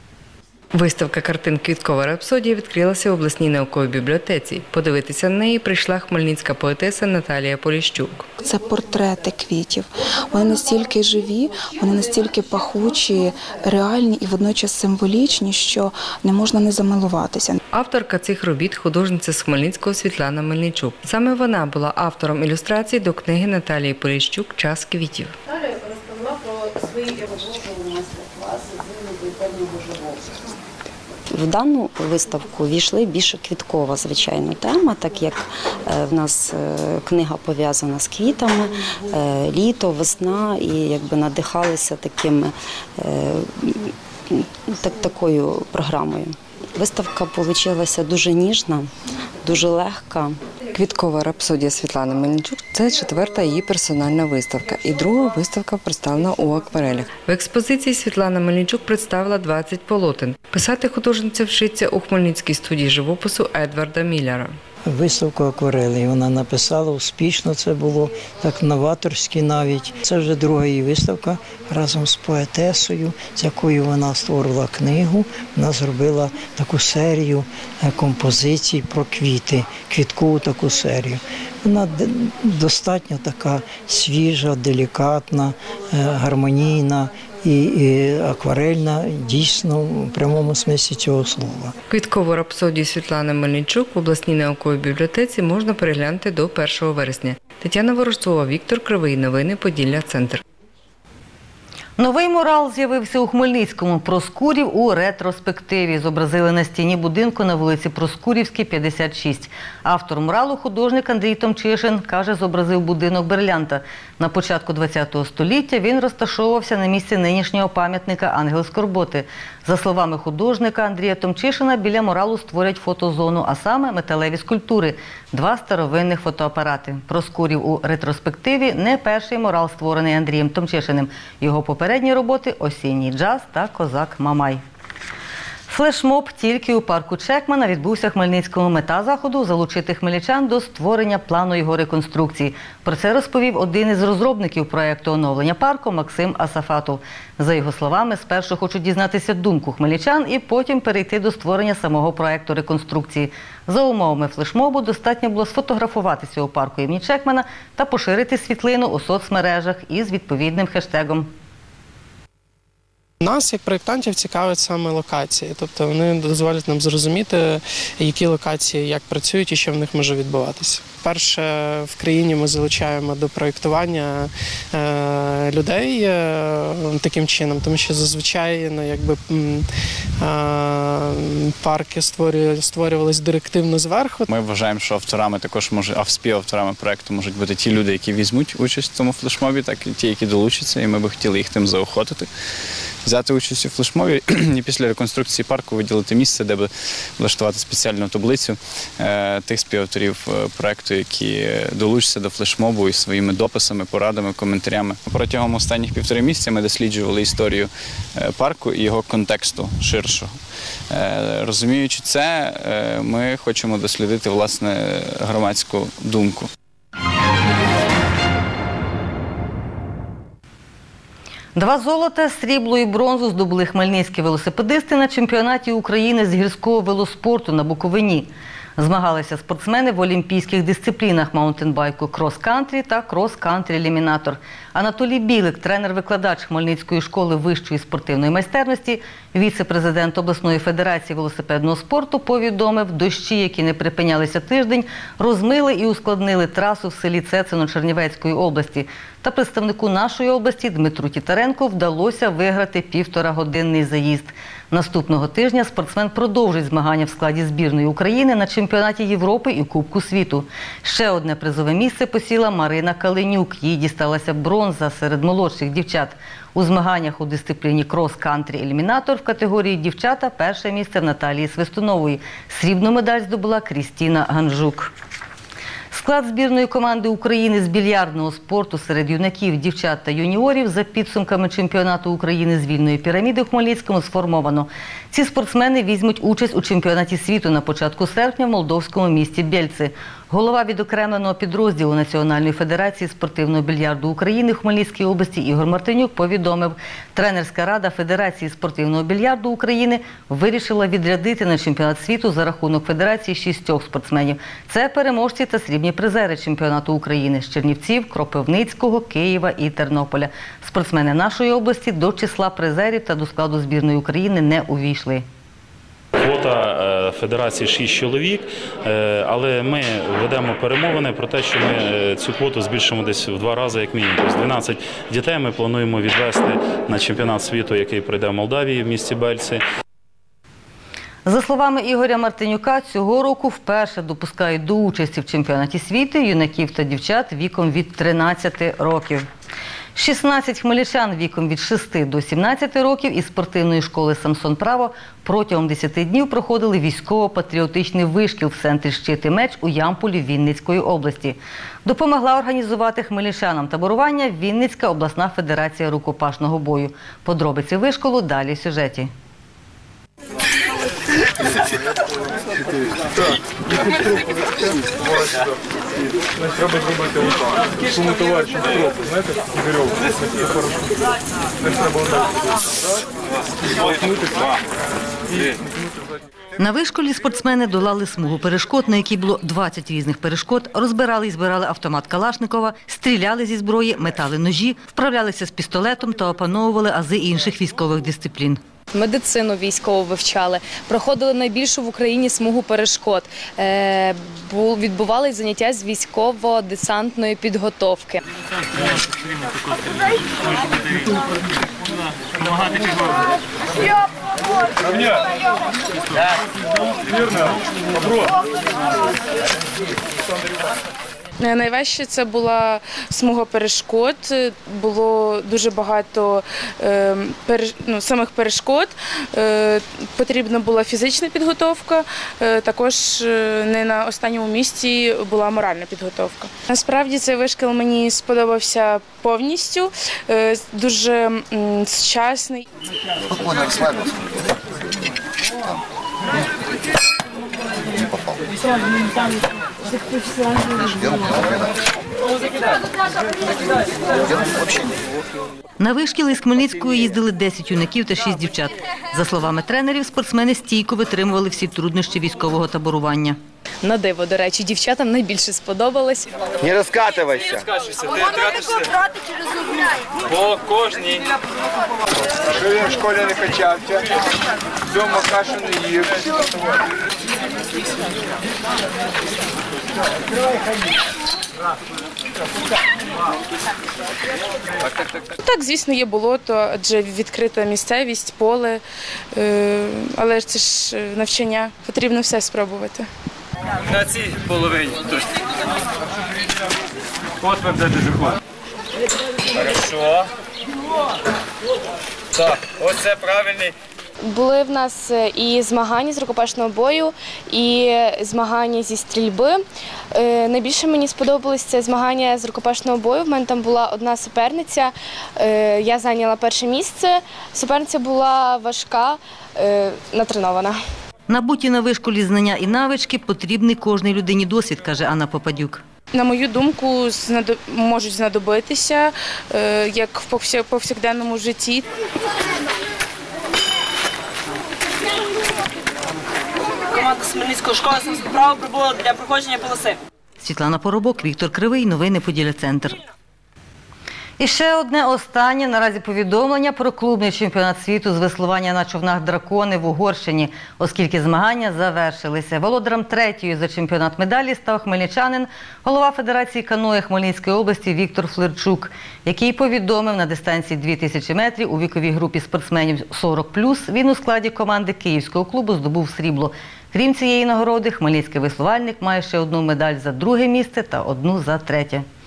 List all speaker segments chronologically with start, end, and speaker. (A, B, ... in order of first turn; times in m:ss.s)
0:00.7-0:08.3 A
0:08.4-0:17.6 B
0:17.7-0:25.3 A
0:32.1-0:35.3 C
0:35.9-0:38.6 C
0:39.2-0:42.5 C
0:43.0-0:43.7 C
0:44.8-0:46.2 C
0:47.6-0:47.9 C
0:49.5-0:50.1 C
0:50.7-1:04.5 A
1:04.8-1:31.7 D
1:31.9-1:40.4 A
1:42.0-2:14.6 E
2:15.7-2:41.3 E
2:43.2-2:59.7 F
3:00.2-3:04.3 F
3:04.3-3:12.3 G
3:13.0-3:30.3 G
3:30.9-3:36.5 G
3:41.6-4:34.9 E
4:35.9-5:15.2 E
5:16.2-5:29.6 H
5:31.2-5:39.2 E
5:39.9-5:59.1 E
6:08.0-6:08.8 I
6:16.6-6:28.6 E
6:36.5-6:37.1 J
6:51.4-7:12.6 K
7:25.8-7:33.4 E
7:36.6-7:37.5 C
7:40.4-7:41.2 I
7:42.7-7:43.8 I
7:45.0-7:46.0 I
7:55.4-7:58.8 K
7:59.3-8:03.1 K
8:04.2-8:05.0 I
8:09.7-8:10.2 I
8:12.7-8:13.7 I
8:14.2-8:30.8 L
8:31.3-8:35.8 E
8:36.1-8:41.8 K
8:47.0-8:49.9 J
8:50.4-8:53.0 E
8:54.4-9:22.0 E